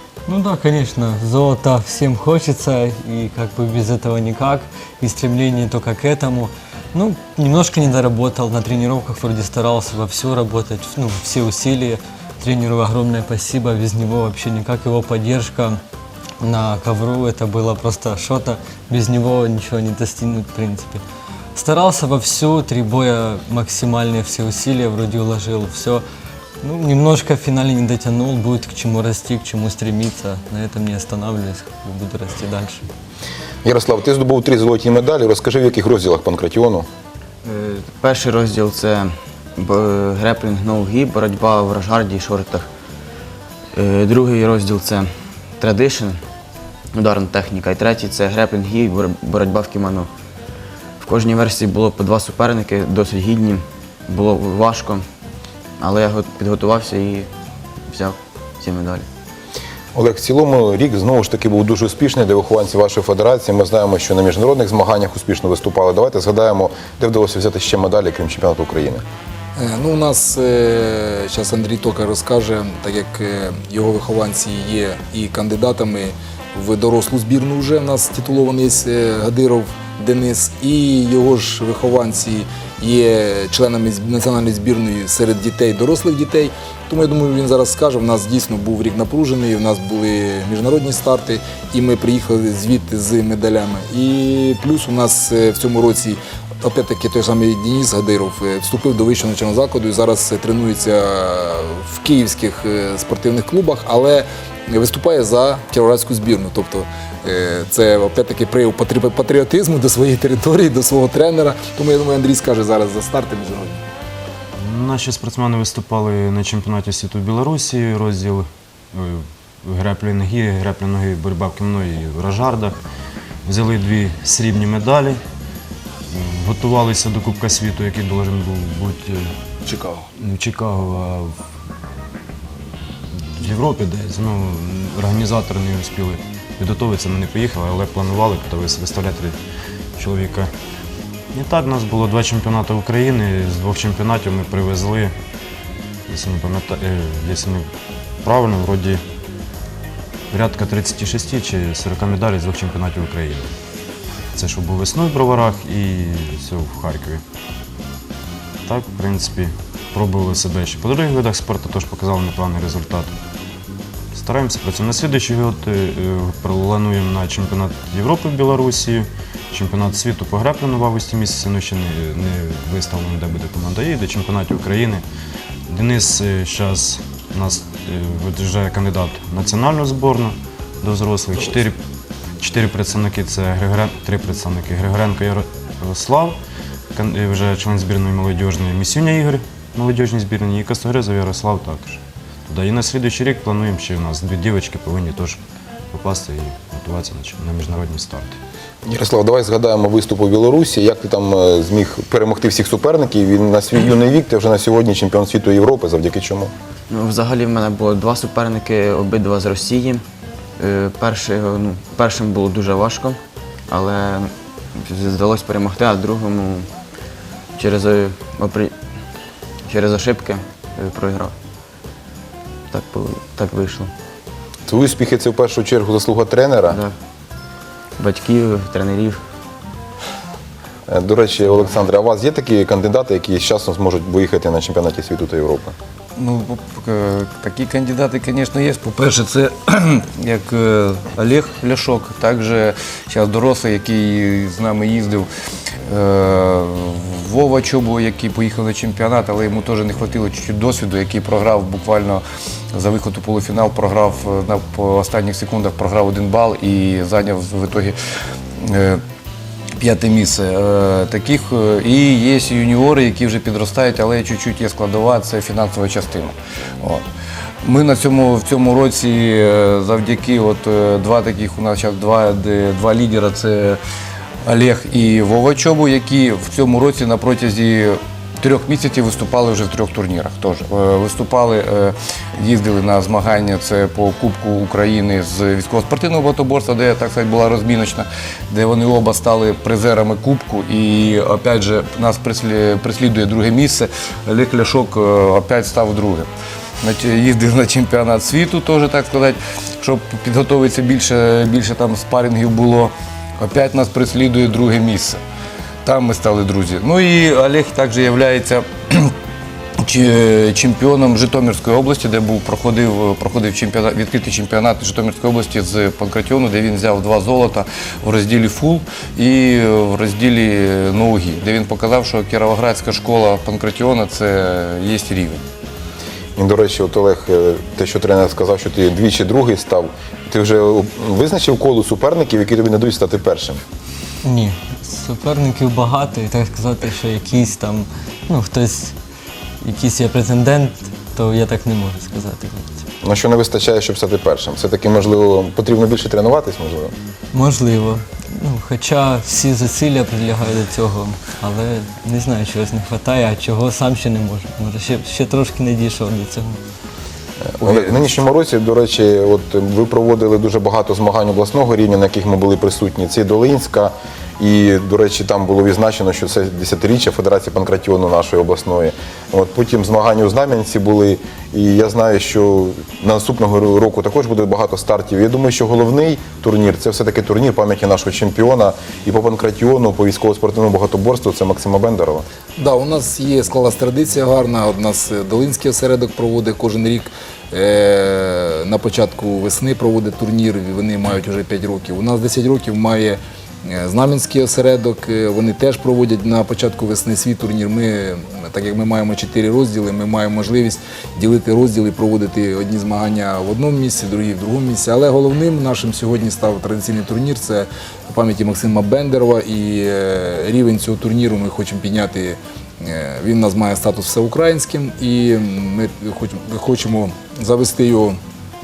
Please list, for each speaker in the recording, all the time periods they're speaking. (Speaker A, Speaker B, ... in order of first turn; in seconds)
Speaker A: 0.3-15.8, 16.4-21.0, 21.6-26.0, 26.6-32.8, 334.2-338.9, 339.6-342.7, 347.3-356.6
Speaker B: 33.6-36.9, 59.9-69.0, 198.9-206.5, 224.7-226.8, 230.9-235.8, 326.4-333.6, 343.0-346.9, 357.6-382.2
Speaker C: 37.5-42.7, 43.7-46.2, 46.9-50.1, 51.0-55.1, 55.8-57.3, 57.9-59.1, 206.9-210.1, 210.6-216.7, 217.6-218.8, 219.7-221.4, 222.7-223.9, 226.7-226.9, 228.0-229.2
Speaker D: 69.6-113.8, 382.6-418.2
Speaker E: 114.6-122.8, 123.5-125.2, 126.1-131.3, 133.3-139.4, 140.0-140.5, 141.3-145.1, 146.1-147.7, 148.2-149.0, 150.3-153.5, 154.3-157.2, 158.7-163.1, 164.1-175.0, 175.7-181.8, 182.4-186.4, 186.9-195.4, 195.9-198.4
Speaker F: 236.2-245.3, 245.9-258.0, 258.6-259.0, 259.8-267.0, 267.6-273.8, 274.4-296.3, 296.8-305.2, 305.9-309.1, 309.8-325.4